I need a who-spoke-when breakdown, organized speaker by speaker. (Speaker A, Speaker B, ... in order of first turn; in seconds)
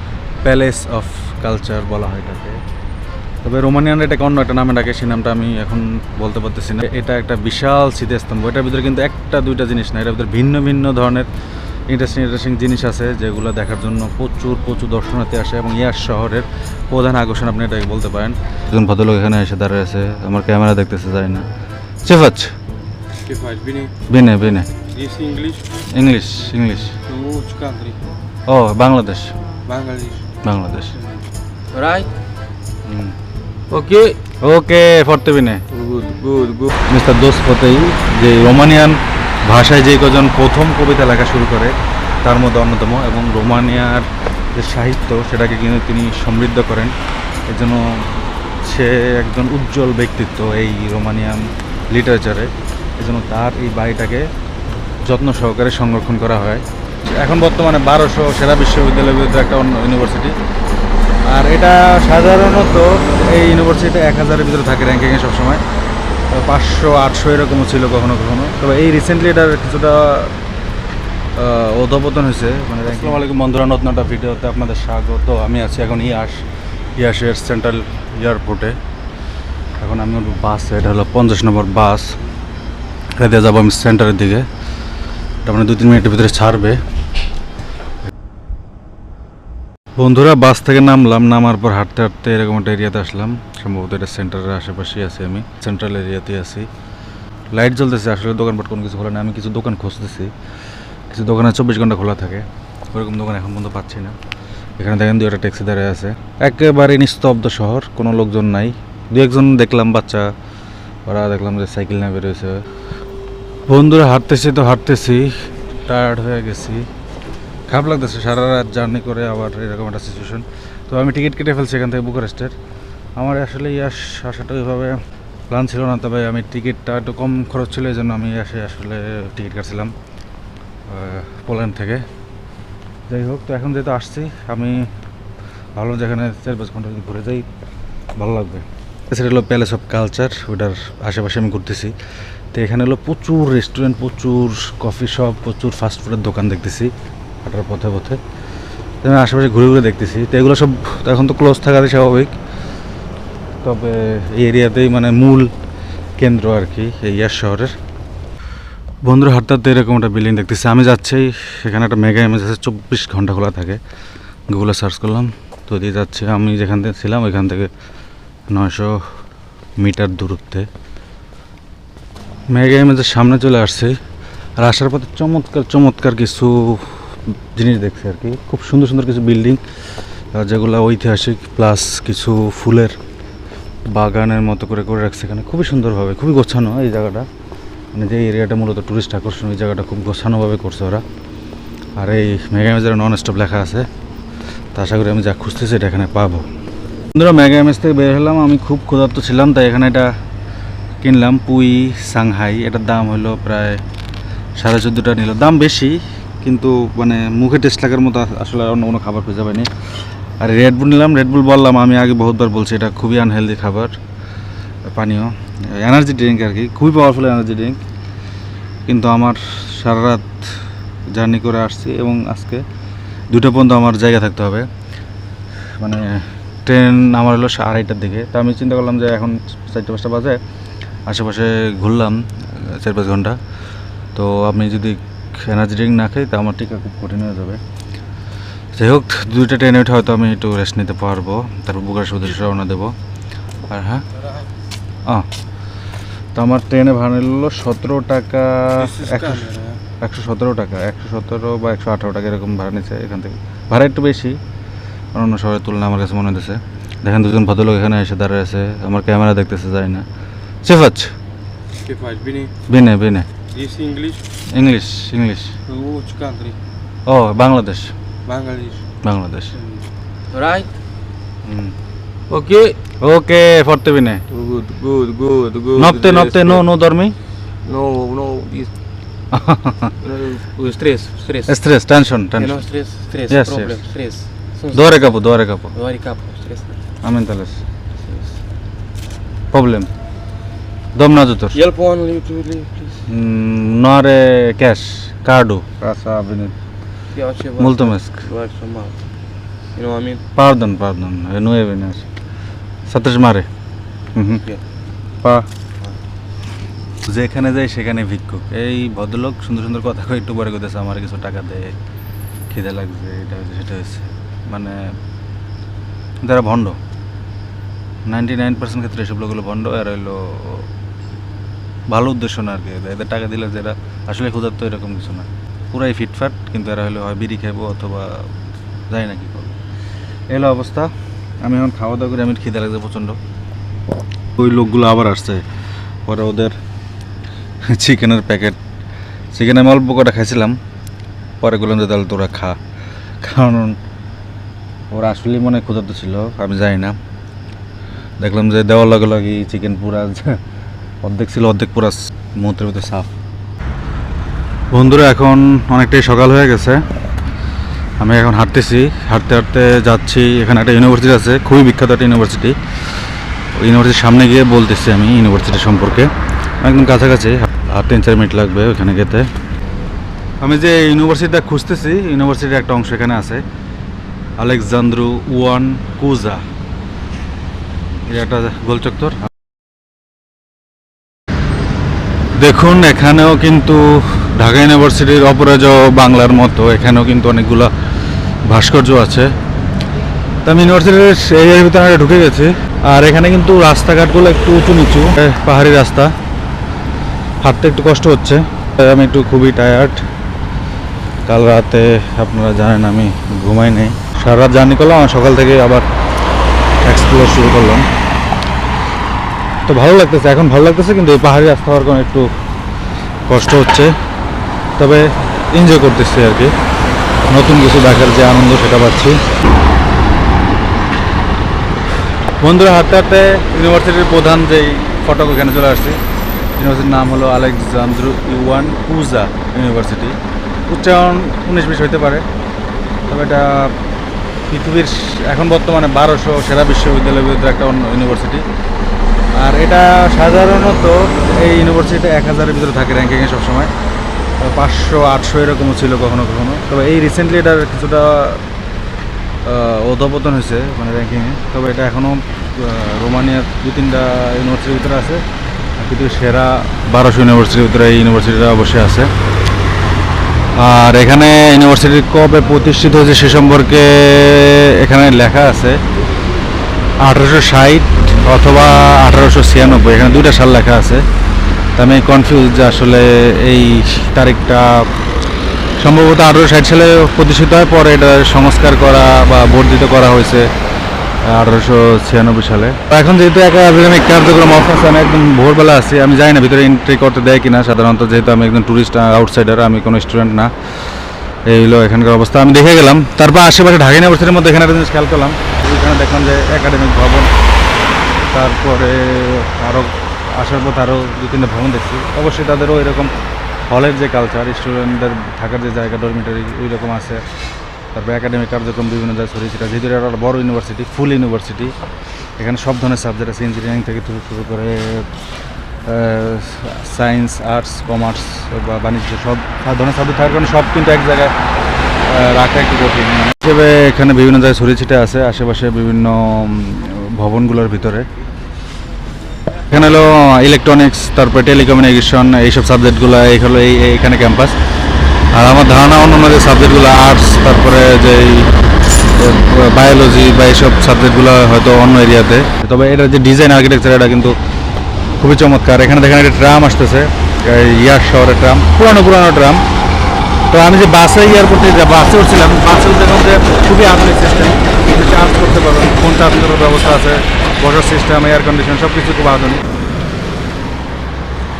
Speaker A: 0.4-2.6, 3.4-11.3, 11.9-21.4, 22.0-22.5, 24.1-24.7, 25.9-26.9, 28.5-29.3, 30.4-30.9, 32.9-33.1, 34.4-35.6, 36.9-41.7, 42.2-46.9, 47.5-47.8, 48.6-54.2, 55.0-56.6, 57.1-60.3, 61.3-65.6, 66.3-70.3, 71.4-76.4, 77.0-78.8, 79.8-82.1, 83.2-84.5, 85.4-86.8, 90.0-96.7, 97.5-100.3, 101.1-104.2, 104.8-110.3, 111.1-112.6, 113.7-116.8, 117.7-122.5, 123.2-125.0, 125.5-129.9, 130.9-132.0, 133.1-134.9, 135.8-137.5, 138.2-141.9, 142.5-146.9, 147.4-148.2, 149.0-152.3, 153.6-155.5, 156.2-157.7, 159.0-163.8, 164.5-167.7, 168.5-169.0, 169.8-170.7, 172.5-173.9, 174.6-179.6, 180.3-182.9, 183.9-187.3, 187.9-191.0, 192.0-193.9, 194.7-196.4, 197.1-200.1, 201.0-203.8, 204.6-209.7, 210.4-213.9, 214.9-217.8, 218.9-220.5, 221.1-222.6, 223.3-224.7, 225.8-230.4, 231.1-233.4, 234.1-237.6, 238.7-242.9, 243.7-244.0, 246.3-249.5, 250.0-254.4, 255.1-260.1, 260.6-261.1, 262.7-263.3, 264.5-265.5, 267.1-267.9, 269.0-269.5, 271.4-271.7, 273.0-274.2, 275.8-277.1, 279.3-279.9, 281.5-282.6, 283.3-283.8, 284.7-285.7, 287.0-287.6, 289.5-289.9, 290.9-291.6, 293.1-296.5, 297.6-298.2, 300.4-302.1, 302.9-303.5, 304.1-304.4, 307.1-311.8, 312.5-314.8, 316.2-316.8, 318.1-320.7, 321.9-328.3, 328.9-329.6, 330.3-330.9, 331.4-333.2, 334.4-335.4, 336.1-336.6, 337.7-338.6, 339.3-340.6, 341.4-342.6, 343.2-343.8, 344.9-347.0, 348.2-350.4, 351.0-353.1, 354.7-356.8, 358.0-362.6, 363.6-366.1, 366.6-369.3, 370.4-373.4, 374.4-376.4, 378.1-379.3, 382.4-387.7, 388.5-389.3, 390.4-396.1, 397.4-400.0, 401.3-405.8, 406.8-407.9, 409.7-412.3, 413.3-413.9, 414.8-416.5, 417.3-419.2, 422.4-426.0, 426.6-430.1, 430.7-432.2, 433.1-433.7, 434.5-438.4, 439.4-443.7, 444.4-448.4, 449.4-455.2, 455.8-459.1, 460.6-465.8, 467.0-471.0, 471.8-474.9, 475.8-480.5, 481.2-490.5, 491.4-497.3, 498.3-503.1, 503.7-507.2, 507.9-511.7, 512.4-515.1, 515.8-521.3, 522.1-528.1, 529.7-534.5, 535.3-538.5, 539.1-544.3, 545.2-549.6, 550.5-559.6
Speaker B: 23.1-23.9, 24.8-25.7, 27.1-28.0, 29.6-30.3, 31.7-32.1, 33.7-34.2, 35.7-36.7, 248.7-249.8, 261.7-262.5, 263.5-264.3, 265.6-266.6, 268.2-268.9, 269.5-270.7, 272.3-272.8, 274.3-276.7, 277.6-278.7, 280.0-281.6, 282.4-285.1, 285.7-286.8, 288.0-288.3, 291.5-293.0, 297.1-299.0, 299.7-300.2